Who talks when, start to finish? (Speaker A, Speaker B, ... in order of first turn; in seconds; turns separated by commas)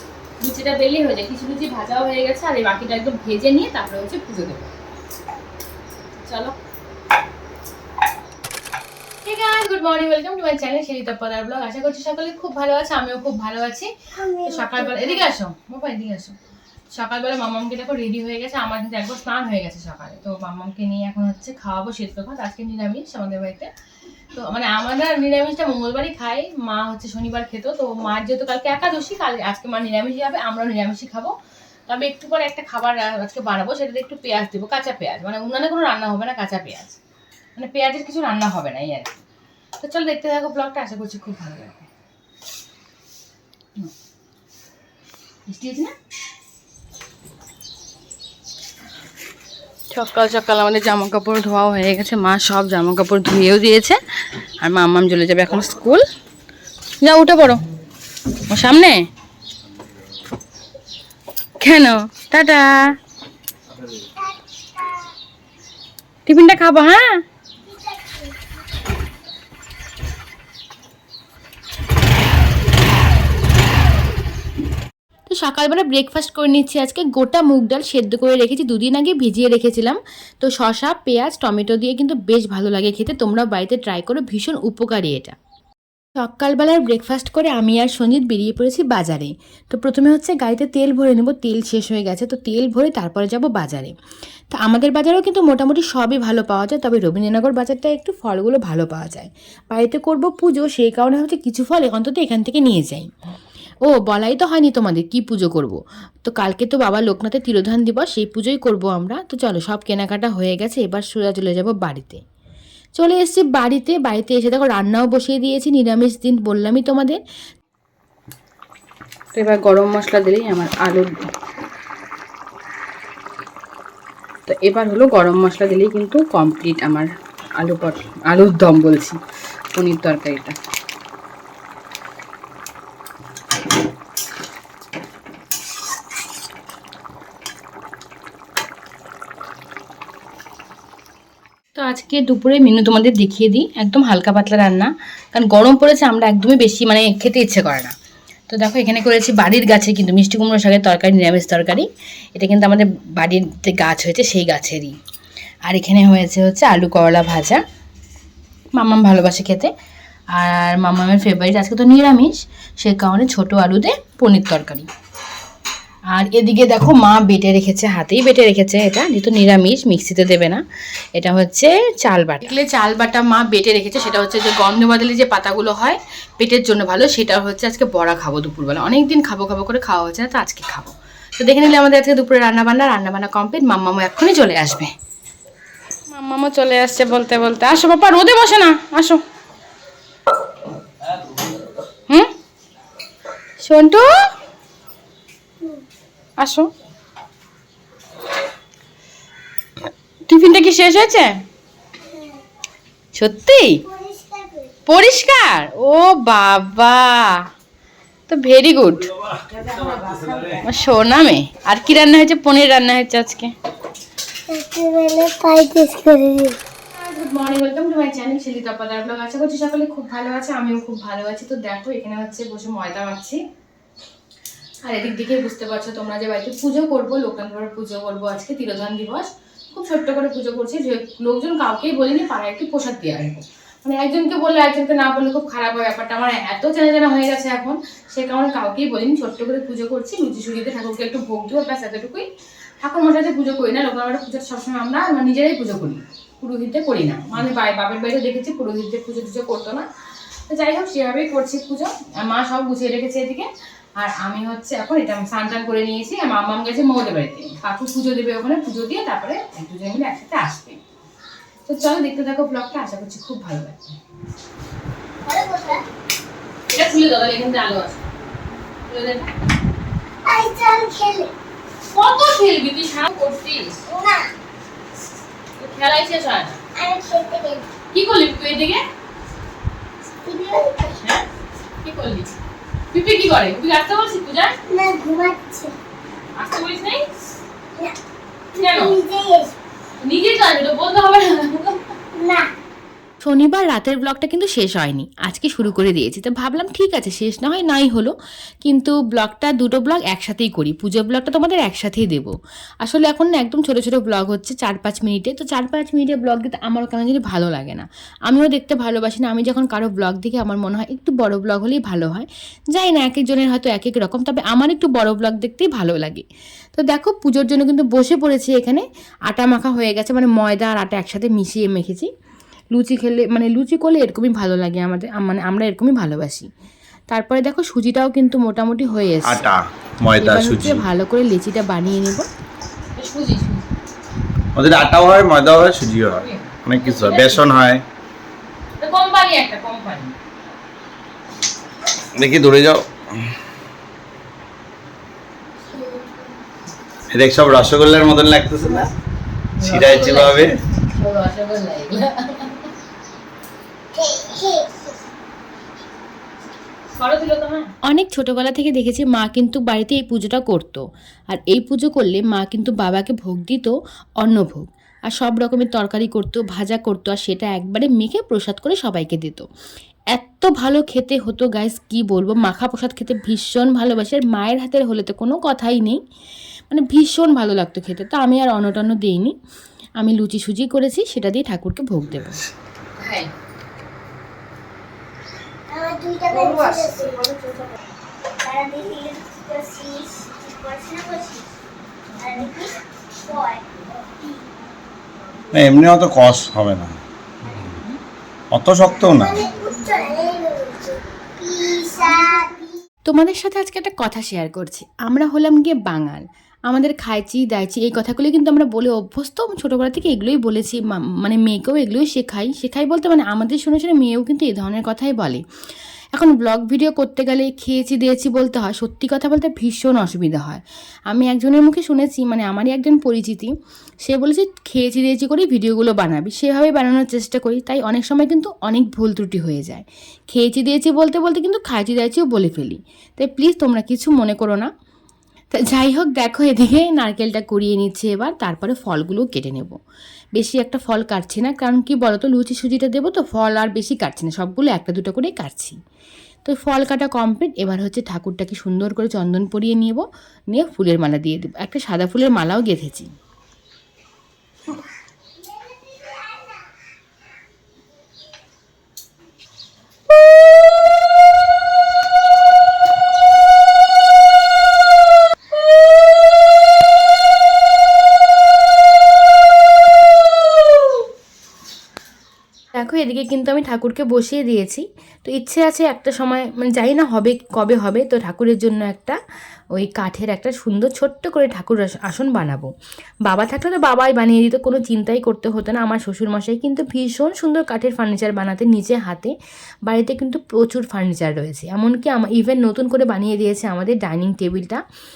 Speaker A: 0.4-4.7, Speaker A: 6.2-6.5, Speaker A: 9.2-13.9, Speaker B: 14.1-15.2, Speaker A: 14.4-16.4, Speaker A: 16.9-23.7, Speaker A: 24.3-31.3, Speaker A: 31.9-37.0, Speaker A: 37.6-39.2, Speaker A: 39.8-41.9, Speaker A: 45.5-45.9, Speaker A: 49.9-54.0, Speaker A: 54.6-56.0, Speaker A: 57.0-57.6, Speaker A: 58.5-59.0, Speaker A: 61.6-63.0, Speaker B: 64.2-65.1, Speaker A: 66.3-67.2, Speaker B: 67.7-68.5, Speaker A: 75.3-85.4, Speaker A: 86.2-93.9, Speaker A: 94.5-103.1, Speaker A: 103.8-112.2, Speaker A: 113.0-117.2, Speaker A: 119.3-121.1, Speaker A: 124.5-129.2, Speaker A: 129.7-130.6, Speaker A: 141.8-147.9, Speaker A: 148.5-155.0, Speaker A: 155.7-157.6, Speaker A: 158.7-159.7, Speaker A: 160.3-164.9, Speaker A: 166.1-170.6, Speaker A: 171.2-184.9, Speaker A: 186.1-189.2, Speaker A: 193.6-194.2, Speaker A: 196.4-196.7, Speaker A: 200.3-201.4, Speaker B: 202.1-202.4, Speaker A: 203.1-203.8, Speaker B: 203.9-204.7, Speaker A: 204.9-207.4, Speaker A: 208.3-209.1, Speaker C: 209.7-210.4, Speaker A: 210.5-213.5, Speaker B: 214.5-216.6, Speaker A: 216.9-223.4, Speaker A: 224.8-242.3, Speaker A: 242.8-249.9, Speaker A: 250.5-260.8, Speaker A: 261.7-264.0, Speaker B: 265.2-265.9, Speaker A: 266.7-268.1, Speaker A: 268.9-269.3, Speaker B: 270.3-271.3, Speaker A: 271.9-273.7, Speaker B: 273.9-274.3, Speaker A: 275.6-276.6, Speaker B: 276.8-277.7, Speaker A: 277.9-278.8, Speaker B: 280.2-281.0, Speaker A: 280.9-281.2, Speaker A: 281.8-282.3, Speaker A: 282.9-284.6, Speaker B: 284.7-285.8, Speaker A: 286.4-287.0, Speaker B: 288.5-289.6, Speaker A: 288.6-289.0, Speaker A: 290.0-291.9, Speaker B: 292.1-292.5, Speaker A: 293.2-298.1, Speaker A: 298.6-316.2, Speaker A: 316.8-322.1, Speaker A: 322.7-326.5, Speaker A: 327.1-329.5, Speaker C: 329.3-330.9, Speaker A: 330.2-332.3, Speaker A: 333.0-333.7, Speaker C: 334.6-337.8, Speaker A: 336.1-337.5, Speaker A: 338.8-340.1, Speaker C: 342.2-343.0, Speaker B: 345.7-346.3, Speaker C: 347.1-348.9, Speaker A: 349.6-352.7, Speaker C: 349.6-350.6, Speaker B: 353.9-355.0, Speaker A: 357.0-369.5, Speaker A: 370.1-376.0, Speaker A: 376.7-379.3, Speaker A: 380.0-382.4, Speaker A: 383.0-383.3, Speaker B: 385.7-387.2, Speaker A: 386.3-387.7, Speaker B: 388.4-391.5, Speaker B: 392.2-394.5, Speaker C: 395.5-397.0, Speaker C: 398.5-399.4, Speaker B: 399.1-402.8, Speaker A: 403.1-415.4, Speaker A: 416.1-434.7, Speaker A: 435.5-439.8, Speaker A: 440.4-445.8, Speaker A: 446.4-453.1, Speaker B: 455.5-456.5, Speaker A: 472.7-479.2, Speaker A: 479.7-482.7, Speaker A: 483.3-489.3, Speaker A: 489.9-494.8